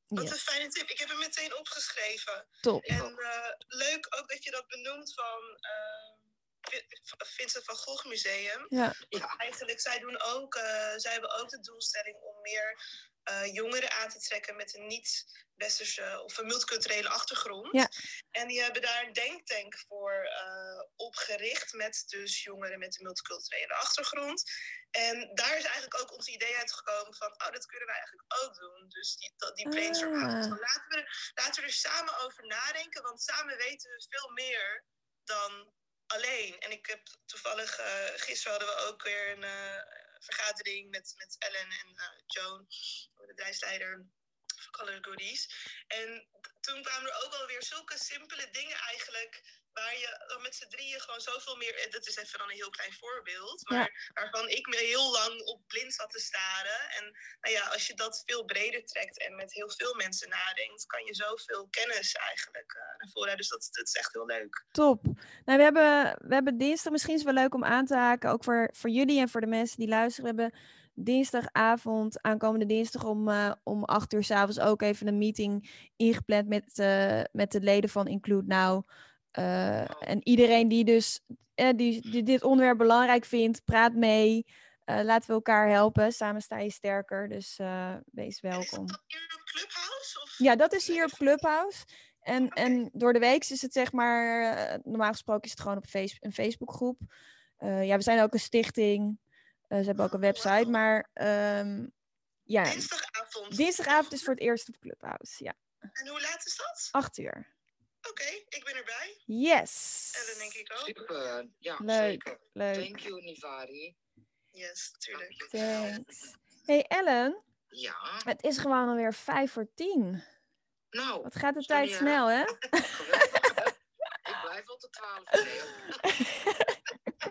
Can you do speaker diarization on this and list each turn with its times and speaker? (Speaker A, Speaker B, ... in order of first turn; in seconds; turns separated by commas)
Speaker A: 0.2-24.4, Speaker B: 2.9-3.2, Speaker C: 8.7-9.0, Speaker A: 24.9-42.7, Speaker C: 29.7-30.6, Speaker A: 43.2-44.1, Speaker A: 44.7-64.6, Speaker C: 64.7-78.8, Speaker C: 79.3-89.0, Speaker A: 88.5-91.2, Speaker C: 90.4-97.1, Speaker A: 92.5-92.8, Speaker C: 97.6-99.2, Speaker C: 99.7-101.9, Speaker A: 100.0-100.7, Speaker C: 102.5-102.9, Speaker A: 102.7-104.2, Speaker C: 103.5-105.5, Speaker A: 106.0-106.9, Speaker C: 107.0-107.5, Speaker A: 108.0-109.2, Speaker C: 109.3-110.5, Speaker A: 110.1-111.0, Speaker B: 110.8-114.0, Speaker C: 111.8-113.1, Speaker A: 114.5-116.0, Speaker B: 115.2-115.7, Speaker C: 115.5-117.4, Speaker B: 117.7-118.3, Speaker C: 118.2-120.2, Speaker B: 120.9-122.2, Speaker C: 121.2-123.3, Speaker B: 122.8-126.1, Speaker C: 126.0-126.8